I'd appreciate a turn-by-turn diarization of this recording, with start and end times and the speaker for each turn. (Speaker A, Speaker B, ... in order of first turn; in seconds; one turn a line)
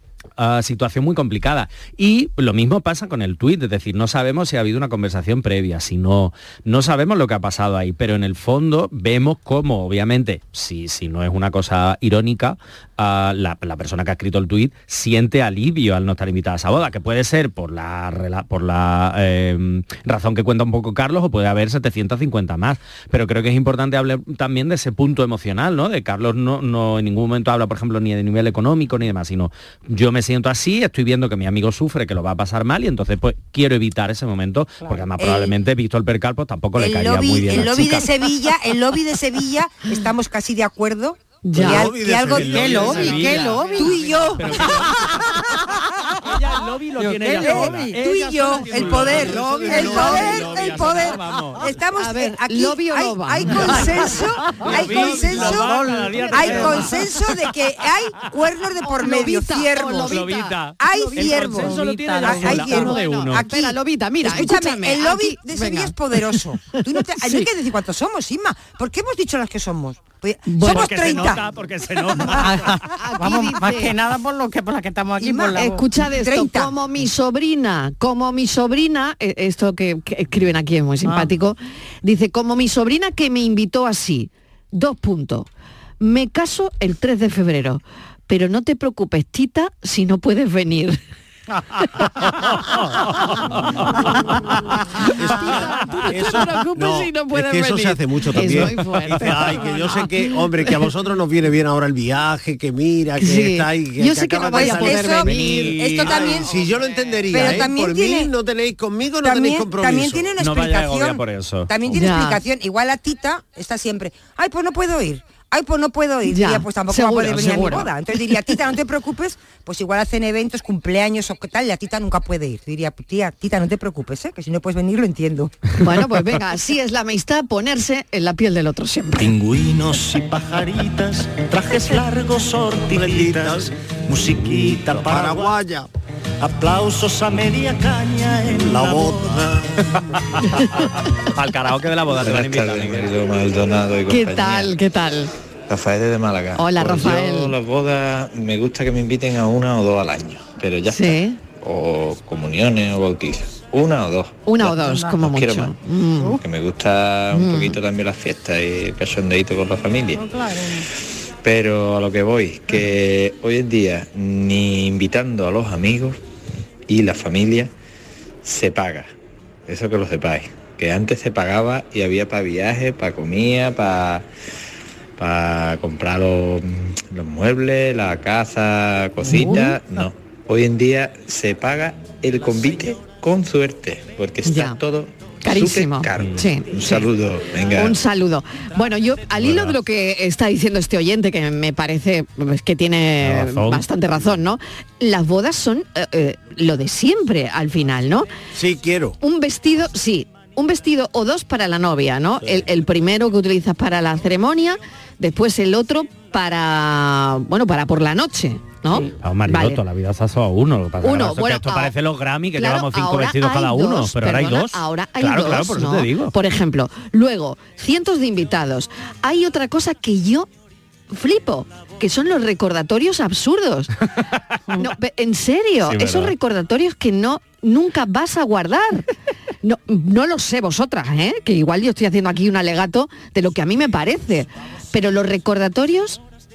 Speaker A: 0.4-38.1
Speaker B: 35.2-35.5
Speaker B: 36.8-45.3
Speaker C: 41.4-41.9
Speaker D: 41.5-43.4
Speaker A: 42.3-45.2
Speaker E: 42.4-44.3
Speaker A: 46.3-51.6
Speaker E: 46.9-48.0
Speaker B: 47.4-60.2
Speaker D: 49.4-50.8
Speaker E: 49.7-49.9
Speaker C: 52.0-54.2
Speaker A: 53.6-57.3
Speaker E: 54.7-56.9
Speaker C: 59.0-60.5
Speaker A: 60.0-63.4
Speaker B: 60.8-71.4
Speaker E: 60.9-62.8
Speaker C: 62.4-66.3
Speaker C: 67.2-67.5
Speaker E: 70.5-71.1
Speaker A: 70.6-72.8
Speaker E: 72.2-75.8
Speaker C: 73.0-74.0
Speaker B: 75.2-76.7
Speaker C: 75.5-85.5
Speaker E: 81.0-81.3
Speaker C: 86.0-91.0
Speaker A: 92.6-93.4
Speaker C: 95.0-100.7
Speaker D: 95.0-110.3
Speaker C: 103.2-105.8
Speaker B: 104.4-106.5
Speaker A: 105.5-107.0
Speaker B: 107.3-108.3
Speaker B: 109.2-125.5
Speaker A: 110.4-111.7
Speaker C: 111.9-112.4
Speaker C: 116.3-117.9
Speaker C: 125.8-129.3
Speaker F: 129.2-135.6
Speaker D: 132.9-133.7
Speaker D: 134.4-135.9
Speaker F: 136.4-139.7
Speaker D: 138.5-139.6
Speaker A: 141.3-143.1
Speaker G: 142.2-144.8
Speaker C: 144.1-145.3
Speaker G: 145.7-155.8
Speaker C: 146.6-147.5
Speaker C: 150.9-151.4
Speaker C: 154.5-156.4
Speaker E: 154.7-155.2
Speaker E: 156.2-156.4
Speaker G: 156.4-160.2
Speaker C: 157.3-157.8
Speaker E: 160.1-160.9
Speaker G: 161.4-166.2
Speaker G: 166.9-167.7
Speaker G: 168.4-169.1
Speaker G: 169.7-174.3
Speaker G: 175.2-188.0
Speaker C: 179.3-179.7
Speaker C: 184.4-184.8
Speaker C: 185.4-187.1
Speaker A: 186.2-186.5
Speaker C: 187.7-198.3
Speaker A: 189.4-189.8
Speaker A: 193.2-193.8
Speaker D: 198.5-199.2
Speaker C: 199.2-209.8
Speaker A: 209.2-216.3
Speaker C: 211.0-211.9
Speaker C: 212.6-220.5
Speaker C: 221.1-223.9
Speaker C: 224.8-229.1
Speaker A: 225.8-226.3
Speaker C: 229.6-236.2